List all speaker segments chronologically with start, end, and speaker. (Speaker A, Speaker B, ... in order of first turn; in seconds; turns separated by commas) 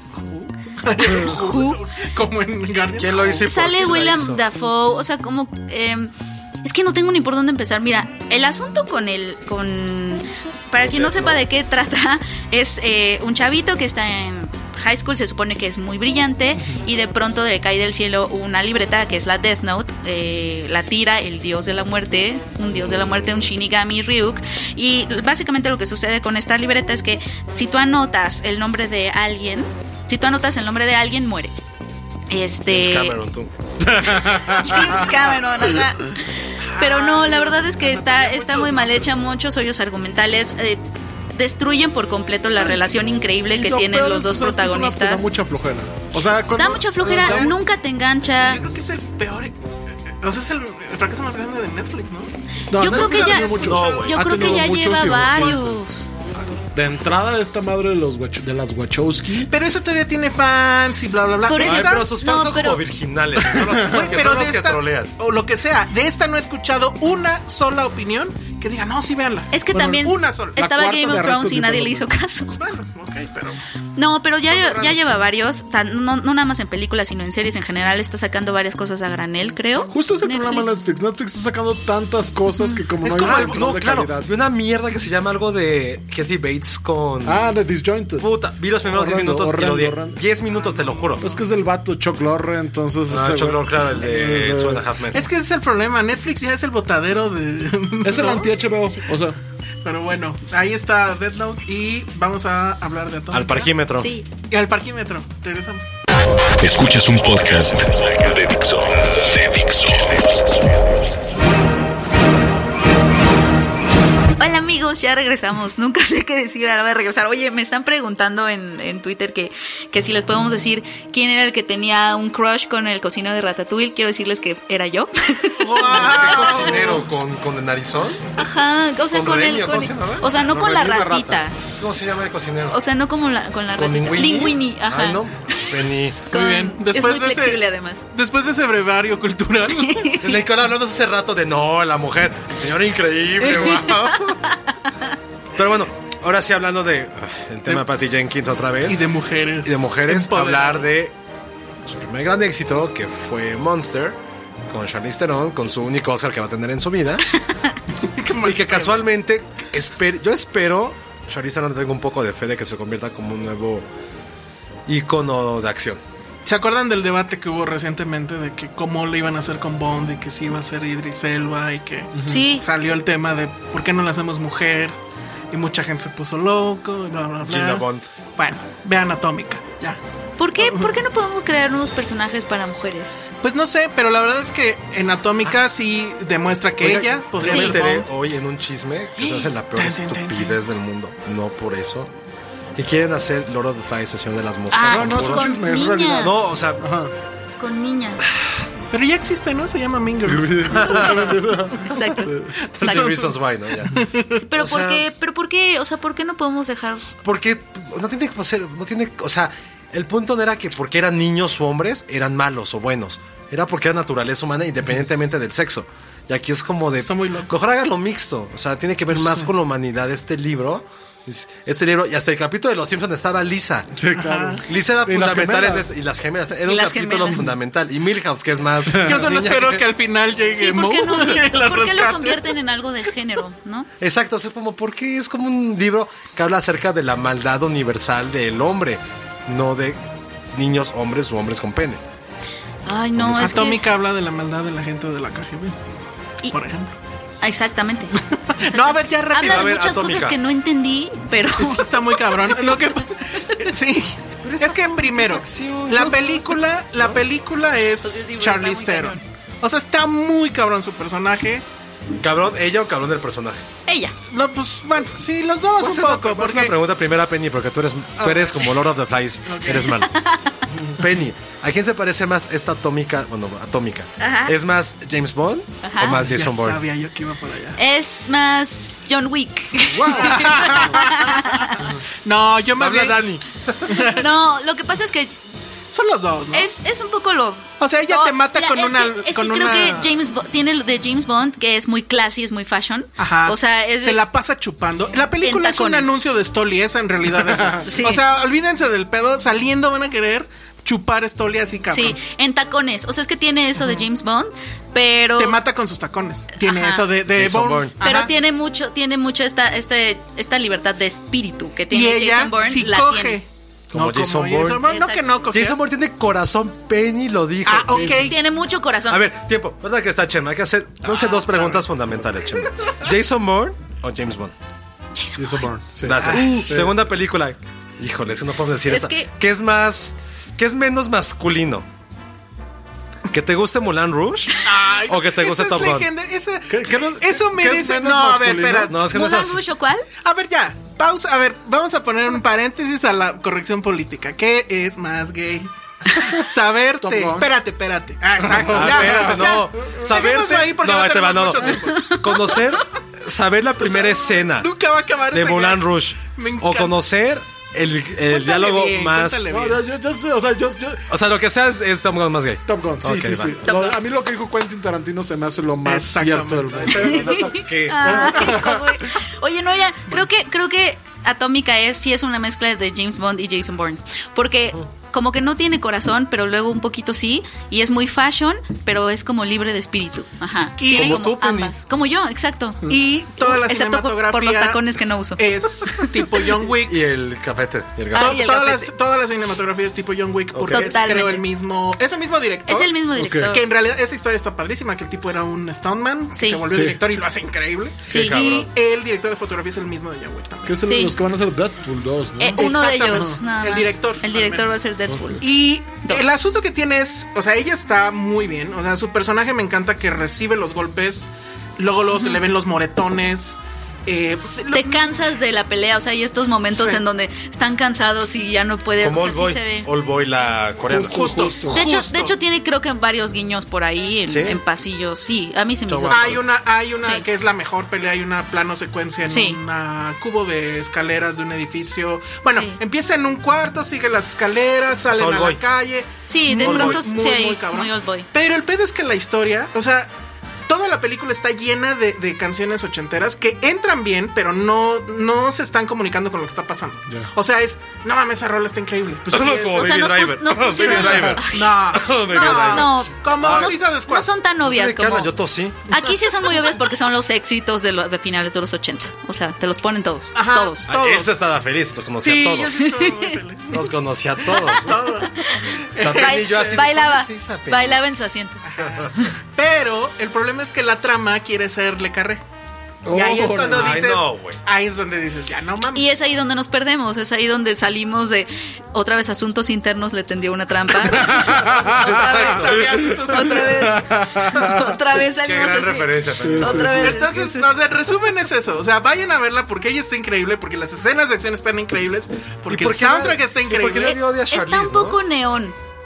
Speaker A: 0.3-3.5, Speaker B: 1.0-1.8, Speaker C: 3.0-4.4, Speaker B: 3.5-6.1, Speaker B: 6.6-31.5, Speaker C: 10.9-11.4, Speaker C: 22.7-23.4, Speaker B: 32.3-33.1, Speaker C: 32.7-33.5, Speaker D: 33.8-35.0, Speaker B: 34.2-36.2, Speaker A: 36.7-39.1, Speaker B: 36.8-45.2, Speaker D: 43.5-47.5, Speaker B: 46.6-48.7, Speaker A: 47.0-47.5, Speaker A: 48.4-49.6, Speaker A: 50.2-55.8, Speaker D: 52.7-55.7, Speaker B: 52.8-56.1, Speaker C: 53.6-54.5, Speaker D: 56.7-59.5, Speaker A: 59.5-62.1, Speaker B: 61.5-62.8, Speaker C: 61.6-65.1, Speaker D: 63.4-64.2, Speaker A: 63.9-72.0, Speaker B: 69.5-72.6, Speaker D: 70.7-71.9, Speaker A: 72.6-73.6, Speaker B: 74.0-80.7, Speaker A: 74.5-75.2, Speaker D: 79.9-84.3, Speaker B: 82.6-82.9, Speaker A: 83.0-83.6, Speaker C: 83.2-87.5, Speaker D: 87.2-88.3, Speaker C: 88.2-91.2, Speaker D: 88.8-90.2, Speaker A: 90.5-91.5, Speaker D: 91.2-94.8, Speaker C: 93.1-95.3, Speaker A: 95.1-98.5, Speaker D: 98.0-99.4, Speaker A: 99.8-103.7, Speaker C: 103.3-104.1, Speaker B: 104.0-104.3, Speaker A: 104.5-105.9, Speaker E: 106.6-110.7, Speaker B: 114.4-127.0, Speaker A: 125.6-127.0, Speaker C: 125.8-128.5, Speaker B: 128.4-131.6, Speaker C: 129.1-130.4, Speaker D: 130.4-131.4, Speaker C: 131.6-132.8, Speaker B: 132.7-138.1, Speaker C: 133.8-136.2, Speaker A: 136.3-137.6, Speaker A: 138.1-140.1, Speaker B: 139.7-140.4, Speaker C: 140.2-144.4, Speaker B: 143.4-144.5, Speaker C: 145.6-149.1, Speaker A: 148.8-150.8, Speaker C: 149.6-151.1, Speaker C: 151.8-154.2, Speaker C: 154.7-157.2, Speaker A: 158.0-159.1, Speaker C: 158.4-163.8, Speaker C: 164.9-166.0, Speaker A: 166.4-175.0, Speaker D: 172.1-172.4, Speaker B: 172.2-172.7, Speaker A: 175.5-177.9, Speaker C: 177.5-178.1, Speaker A: 178.4-180.0, Speaker B: 180.4-183.2, Speaker A: 180.6-181.0, Speaker A: 183.4-188.1, Speaker C: 186.8-192.1, Speaker B: 187.4-187.8, Speaker A: 189.2-190.6, Speaker C: 192.8-195.5, Speaker B: 194.7-196.3, Speaker D: 194.8-197.1, Speaker C: 196.2-196.8, Speaker B: 197.6-198.2, Speaker A: 198.9-201.2, Speaker D: 200.2-202.5, Speaker C: 200.7-201.3, Speaker B: 201.8-203.2, Speaker A: 202.7-203.3, Speaker C: 202.8-204.1, Speaker A: 203.8-204.4, Speaker B: 204.4-207.1, Speaker C: 204.6-205.0, Speaker C: 207.2-224.0, Speaker A: 217.0-217.5, Speaker D: 224.0-225.9, Speaker A: 224.2-224.6, Speaker C: 224.7-229.8, Speaker B: 226.7-227.5, Speaker D: 228.9-229.2, Speaker A: 229.0-232.5, Speaker B: 230.5-233.9, Speaker C: 234.0-240.0, Speaker C: 240.5-242.0, Speaker B: 242.8-243.8, Speaker C: 243.2-243.7, Speaker A: 243.3-245.9, Speaker A: 246.5-246.9, Speaker B: 247.4-252.8, Speaker A: 248.5-249.8, Speaker C: 249.4-250.4, Speaker A: 251.6-261.6, Speaker C: 254.4-257.2, Speaker B: 258.0-259.2, Speaker C: 262.2-263.6, Speaker B: 263.9-264.1, Speaker A: 264.3-266.8, Speaker C: 265.8-270.1, Speaker A: 268.2-268.6, Speaker A: 269.5-269.9, Speaker B: 270.1-270.6, Speaker C: 271.0-276.8, Speaker B: 274.2-274.5, Speaker B: 275.8-276.2, Speaker A: 276.2-277.8, Speaker B: 277.8-281.8, Speaker D: 279.9-281.1, Speaker A: 280.1-281.1, Speaker A: 282.2-283.2, Speaker C: 282.8-284.0, Speaker A: 283.9-284.3, Speaker B: 284.1-285.4, Speaker A: 285.9-286.7, Speaker B: 286.5-294.2, Speaker A: 287.8-290.1, Speaker A: 293.2-302.2, Speaker B: 295.4-296.2, Speaker B: 297.8-298.2, Speaker B: 301.9-305.6, Speaker A: 303.8-304.1, Speaker A: 305.4-308.3, Speaker B: 306.6-307.1, Speaker C: 307.3-308.0, Speaker B: 308.0-313.4, Speaker A: 311.9-315.8, Speaker C: 313.9-314.9, Speaker B: 314.8-315.2, Speaker C: 315.5-318.4, Speaker A: 317.7-318.4, Speaker B: 318.0-319.2, Speaker C: 319.1-324.5, Speaker A: 321.1-321.8, Speaker B: 325.1-325.7, Speaker D: 325.4-327.0, Speaker C: 326.0-331.9, Speaker A: 326.2-326.7, Speaker B: 328.9-329.3, Speaker C: 333.3-336.1, Speaker A: 334.6-338.9, Speaker D: 336.7-338.9, Speaker C: 338.9-339.6, Speaker B: 339.1-340.1, Speaker A: 340.2-345.7, Speaker A: 346.3-352.2, Speaker D: 347.0-347.5, Speaker D: 348.4-349.7, Speaker C: 348.6-354.7, Speaker A: 353.8-357.0, Speaker C: 355.3-359.5, Speaker A: 358.2-359.8, Speaker D: 359.5-361.1, Speaker C: 361.1-363.6, Speaker D: 362.7-369.1, Speaker B: 363.6-364.0, Speaker A: 365.9-367.2, Speaker C: 366.9-368.3, Speaker B: 367.1-386.1, Speaker A: 380.8-381.3, Speaker C: 380.9-381.8, Speaker A: 382.9-384.8, Speaker A: 385.4-386.9, Speaker C: 386.8-388.4, Speaker A: 388.1-400.8, Speaker B: 388.1-388.9, Speaker C: 390.5-391.0, Speaker B: 390.7-391.4, Speaker B: 392.7-393.7, Speaker D: 393.1-393.5, Speaker B: 396.3-396.6, Speaker D: 396.7-397.0, Speaker B: 398.1-398.4, Speaker C: 398.1-398.7, Speaker D: 400.7-402.7, Speaker B: 400.8-401.1, Speaker B: 402.4-406.5, Speaker A: 402.5-404.7, Speaker D: 405.1-405.4, Speaker A: 405.4-415.0, Speaker B: 412.1-412.4, Speaker B: 414.7-419.9, Speaker A: 416.7-417.0, Speaker C: 419.0-421.5, Speaker D: 420.9-421.8, Speaker A: 421.1-422.4, Speaker B: 421.7-426.4, Speaker C: 424.3-424.6, Speaker C: 425.9-426.4, Speaker A: 426.1-440.1, Speaker B: 429.2-429.6, Speaker B: 432.5-432.8, Speaker C: 435.1-435.6, Speaker B: 436.3-438.3, Speaker C: 436.5-437.1, Speaker A: 440.7-449.9, Speaker C: 449.3-453.8, Speaker B: 449.8-455.3, Speaker A: 450.8-454.3, Speaker C: 454.6-455.8, Speaker B: 455.9-460.9, Speaker A: 460.3-461.4, Speaker C: 460.9-462.9, Speaker A: 462.2-463.8, Speaker B: 462.9-463.3, Speaker C: 463.7-465.0, Speaker A: 464.7-465.4, Speaker A: 465.9-466.9, Speaker C: 466.0-468.0, Speaker B: 466.1-468.6, Speaker A: 468.7-472.4, Speaker C: 468.8-469.1, Speaker D: 473.1-474.0, Speaker A: 473.1-476.1, Speaker C: 473.6-474.6, Speaker B: 475.9-487.7, Speaker D: 481.0-482.1, Speaker C: 482.0-482.8, Speaker A: 482.2-483.9, Speaker D: 482.9-484.9, Speaker C: 485.4-487.2, Speaker D: 486.4-487.2, Speaker A: 487.0-494.2, Speaker C: 492.7-495.2, Speaker B: 494.5-495.8